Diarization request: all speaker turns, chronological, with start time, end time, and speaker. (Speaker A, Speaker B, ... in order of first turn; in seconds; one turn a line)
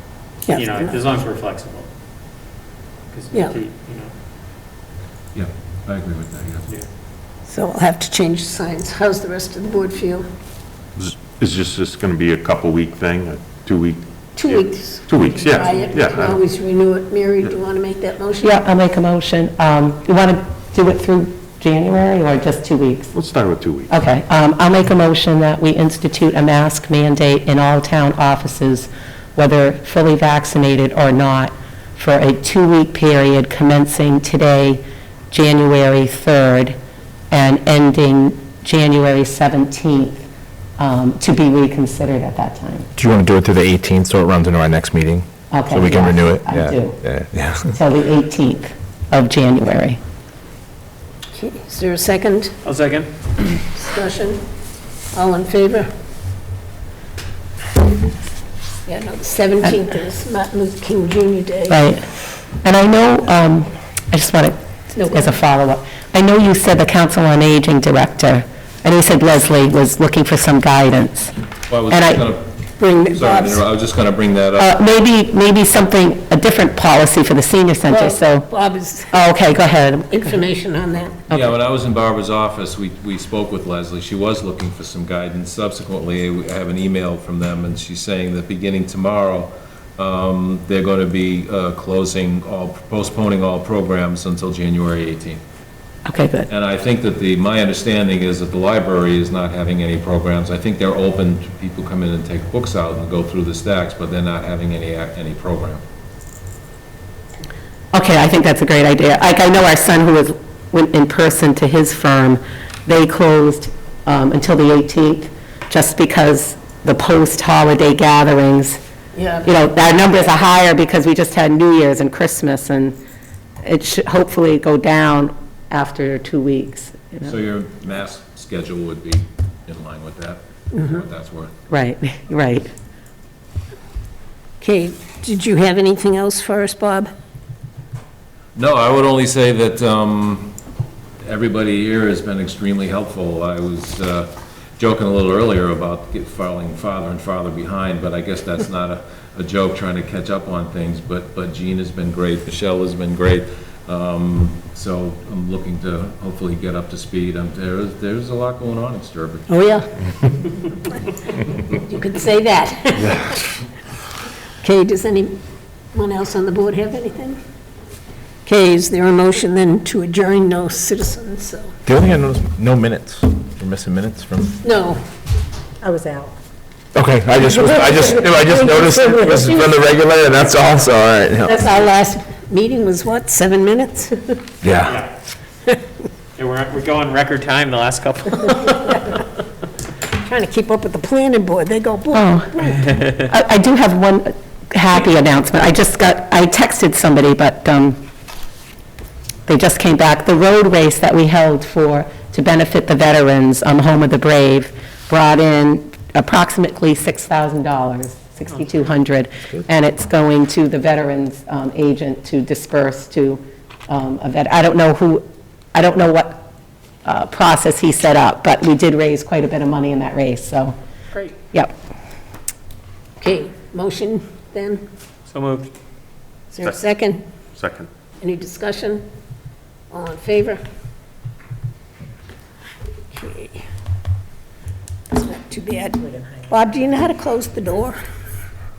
Speaker A: 0.5-1.0
Speaker B: 0.5-1.9
Speaker B: 3.1-4.1
Speaker A: 3.3-3.6
Speaker C: 5.3-6.7
Speaker A: 7.5-10.3
Speaker D: 10.9-16.4
Speaker A: 14.3-18.6
Speaker B: 15.7-16.1
Speaker E: 18.4-23.1
Speaker D: 23.1-23.9
Speaker E: 23.9-36.8
Speaker E: 37.3-40.3
Speaker E: 40.8-42.9
Speaker F: 43.0-47.7
Speaker E: 45.5-47.0
Speaker E: 47.6-50.0
Speaker A: 51.3-52.5
Speaker B: 52.6-53.1
Speaker A: 53.7-54.4
Speaker A: 55.1-55.9
Speaker A: 58.9-61.8
Speaker E: 61.7-62.0
Speaker E: 62.6-71.3
Speaker A: 65.0-65.3
Speaker C: 71.7-72.5
Speaker E: 71.9-73.3
Speaker A: 72.9-73.6
Speaker C: 73.1-74.7
Speaker E: 74.5-78.5
Speaker A: 77.9-79.2
Speaker E: 79.1-80.4
Speaker A: 80.1-81.2
Speaker C: 81.3-95.4
Speaker E: 96.0-96.5
Speaker C: 96.5-105.8
Speaker E: 107.9-118.8
Speaker A: 119.1-119.5
Speaker E: 119.4-123.0
Speaker E: 123.6-127.4
Speaker C: 127.2-131.5
Speaker A: 130.7-131.0
Speaker E: 131.7-132.7
Speaker A: 134.6-137.1
Speaker C: 138.5-140.5
Speaker C: 141.2-159.6
Speaker A: 159.5-159.9
Speaker A: 161.7-163.3
Speaker A: 164.6-165.4
Speaker A: 165.9-167.4
Speaker A: 168.4-171.7
Speaker F: 171.8-174.5
Speaker A: 174.6-175.0
Speaker E: 175.8-176.3
Speaker F: 176.9-181.7
Speaker A: 178.4-179.3
Speaker A: 181.4-184.4
Speaker F: 184.6-185.0
Speaker B: 184.8-185.1
Speaker B: 186.3-188.7
Speaker A: 190.1-192.9
Speaker E: 192.1-192.5
Speaker E: 193.1-198.0
Speaker E: 199.4-216.5
Speaker E: 217.0-220.7
Speaker E: 221.5-221.8
Speaker A: 223.2-224.8
Speaker B: 225.3-225.7
Speaker A: 226.5-227.2
Speaker D: 227.5-227.9
Speaker A: 228.2-229.1
Speaker A: 229.9-230.6
Speaker A: 233.1-233.6
Speaker A: 235.1-238.0